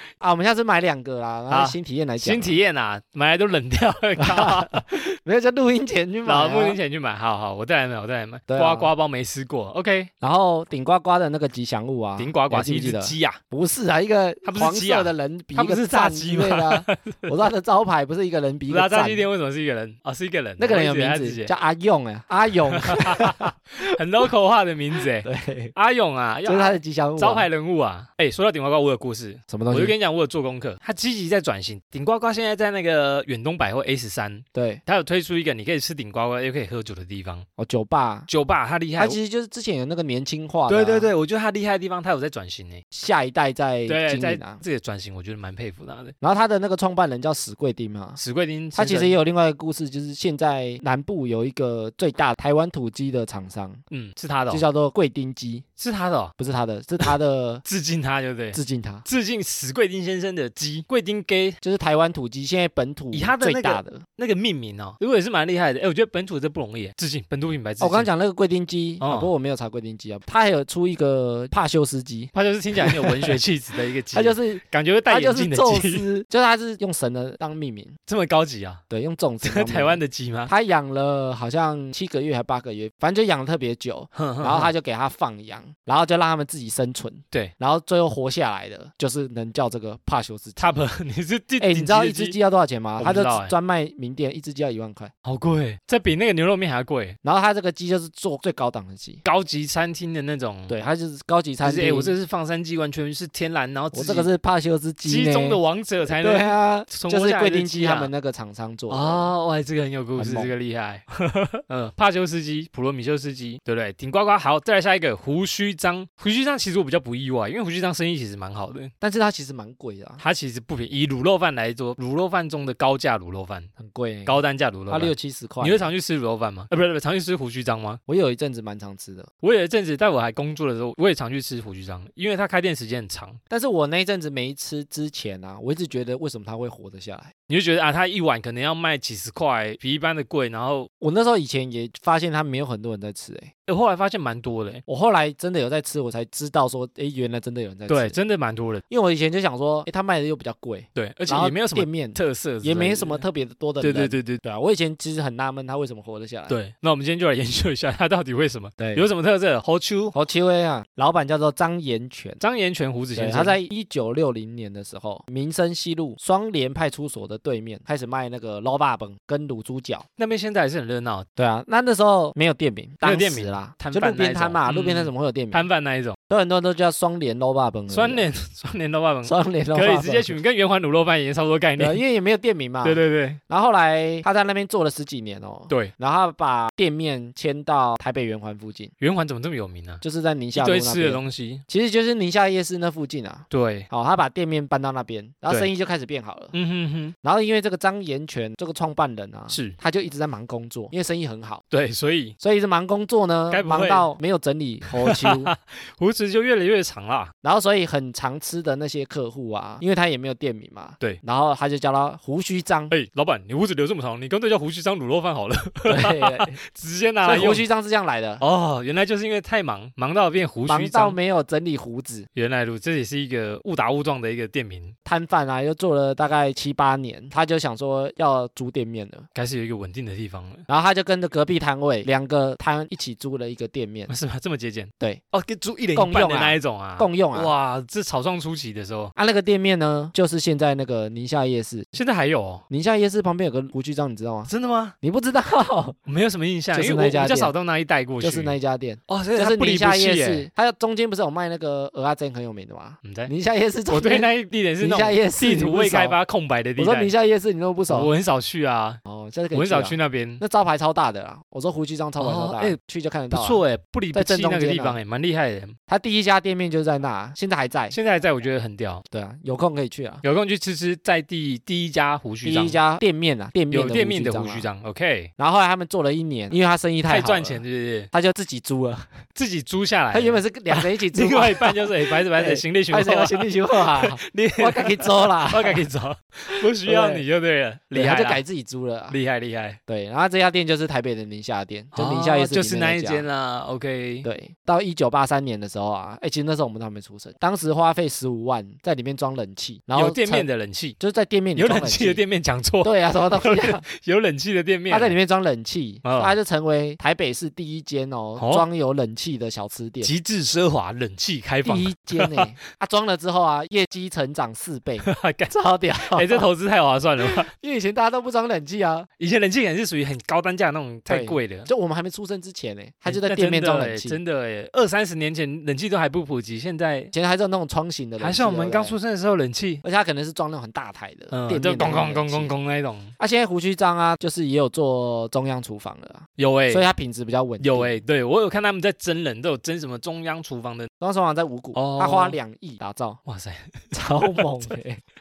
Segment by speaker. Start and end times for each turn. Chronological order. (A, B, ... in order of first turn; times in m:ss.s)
0:00.2-0:02.6 A
0:01.5-0:04.8 B
0:04.2-0:06.8 A
0:06.2-0:10.1 B
0:08.5-0:08.9 A
0:10.2-0:19.2 A
0:12.2-0:13.4 B
0:14.4-0:17.3 B
0:18.7-0:21.5 B
0:20.6-0:23.9 A
0:22.7-0:37.5 B
0:25.0-0:25.7 A
0:26.5-0:27.5 A
0:29.5-0:30.0 A
0:34.6-0:34.8 A
0:37.6-0:38.3 A
0:38.3-0:39.2 B
0:39.0-0:41.1 A
0:40.7-0:42.8 B
0:42.9-0:44.6 A
0:43.9-0:46.2 B
0:46.2-0:48.2 A
0:48.2-0:49.2 B
0:48.7-0:53.8 A
0:53.9-0:54.6 B
0:54.5-0:55.7 A
0:55.8-0:56.3 B
0:56.4-0:57.6 A
0:57.6-1:01.6 B
0:58.5-0:59.1 A
1:01.6-1:04.0 A
1:03.1-1:08.1 B
1:07.8-1:13.4 A
1:09.0-1:09.3 B
1:12.3-1:16.1 B
1:14.1-1:17.9 A
1:18.1-1:18.8 B
1:18.9-1:30.8 A
1:19.4-1:20.5 B
1:24.2-1:24.7 B
1:30.6-1:32.4 B
1:31.6-1:35.1 A
1:33.0-1:33.5 B
1:35.2-1:37.2 B
1:37.2-1:39.2 A
1:39.2-1:40.8 B
1:40.7-1:42.1 A
1:41.6-1:44.3 B
1:43.9-1:49.3 A
1:45.0-1:48.1 B
1:48.9-1:58.9 B
1:50.2-1:50.5 A
1:59.0-2:00.2 A
2:00.2-2:03.7 B
2:03.8-2:05.9 A
2:04.3-2:08.0 B
2:08.1-2:09.3 A
2:09.4-2:13.4 B
2:13.5-2:17.3 A
2:17.5-2:20.9 B
2:21.0-2:23.5 A
2:23.7-2:24.8 B
2:24.9-2:28.2 A
2:27.9-2:28.8 B
2:28.9-2:36.6 A
2:31.0-2:33.2 B
2:33.8-2:34.4 B
2:36.5-2:40.2 B
2:38.8-2:39.1 A
2:40.1-2:42.4 A
2:42.4-2:43.6 B
2:43.2-2:50.1 A
2:50.2-2:51.3 B
2:51.4-2:55.6 A
2:53.0-2:56.2 B
2:56.3-2:58.3 A
2:57.9-3:02.0 B
2:59.3-3:00.4 A
3:01.8-3:08.9 A
3:02.8-3:03.4 B
3:09.0-3:10.0 B
3:10.0-3:16.5 A
3:10.6-3:11.6 B
3:13.5-3:13.9 B
3:16.5-3:17.1 B
3:17.2-3:21.6 A
3:19.5-3:19.8 B
3:21.7-3:22.4 B
3:22.4-3:25.5 A
3:23.5-3:24.1 B
3:24.9-3:27.3 B
3:27.4-3:32.9 A
3:32.9-3:37.6 B
3:35.9-3:36.6 A
3:37.2-3:38.4 A
3:38.4-3:41.2 B
3:40.7-3:42.3 A
3:42.4-3:45.0 B
3:45.1-3:49.3 A
3:49.3-3:50.6 B
3:50.7-3:54.1 A
3:54.1-3:59.1 B
3:55.9-3:57.5 A
3:59.2-4:01.9 A
4:01.9-4:02.6 B
4:02.7-4:04.5 A
4:04.5-4:05.0 B
4:05.0-4:06.0 A
4:06.1-4:08.6 B
4:06.7-4:07.5 A
4:08.2-4:14.3 A
4:09.1-4:10.5 B
4:13.0-4:13.3 B
4:13.9-4:17.1 B
4:14.8-4:16.2 A
4:16.8-4:18.1 A
4:17.9-4:19.0 B
4:19.1-4:23.6 A
4:19.5-4:20.4 B
4:22.2-4:22.8 B
4:23.3-4:25.8 B
4:24.1-4:25.0 A
4:25.9-4:28.0 A
4:27.9-4:29.0 B
4:29.1-4:30.2 A
4:30.2-4:32.8 B
4:32.4-4:34.7 A
4:33.7-4:35.3 B
4:35.4-4:39.2 A
4:37.1-4:38.1 B
4:39.4-4:48.4 B
4:40.1-4:45.9 A
4:46.5-4:47.2 A
4:47.9-4:49.2 A
4:49.1-4:49.8 B
4:49.9-4:53.3 A
4:51.9-4:54.3 B
4:54.2-5:00.5 A
4:59.9-5:01.0 B
5:01.0-5:02.2 A
5:01.6-5:05.2 B
5:02.8-5:03.8 A
5:04.9-5:10.1 A
5:06.0-5:06.4 B
5:08.4-5:08.6 B
5:10.0-5:12.5 B
5:11.6-5:16.5 A
5:15.0-5:15.5 B
5:16.1-5:17.5 B
5:17.2-5:19.1 A
5:19.2-5:21.7 B
5:21.1-5:24.2 A
5:23.1-5:27.1 B
5:27.1-5:29.0 A
5:28.2-5:29.8 B
5:29.8-5:32.5 A
5:31.3-5:33.1 B
5:33.2-5:38.0 A
5:36.4-5:36.9 B
5:37.6-5:40.9 B
5:41.0-5:43.2 A
5:41.7-5:42.4 B
5:43.2-5:44.7 B
5:43.9-5:45.0 A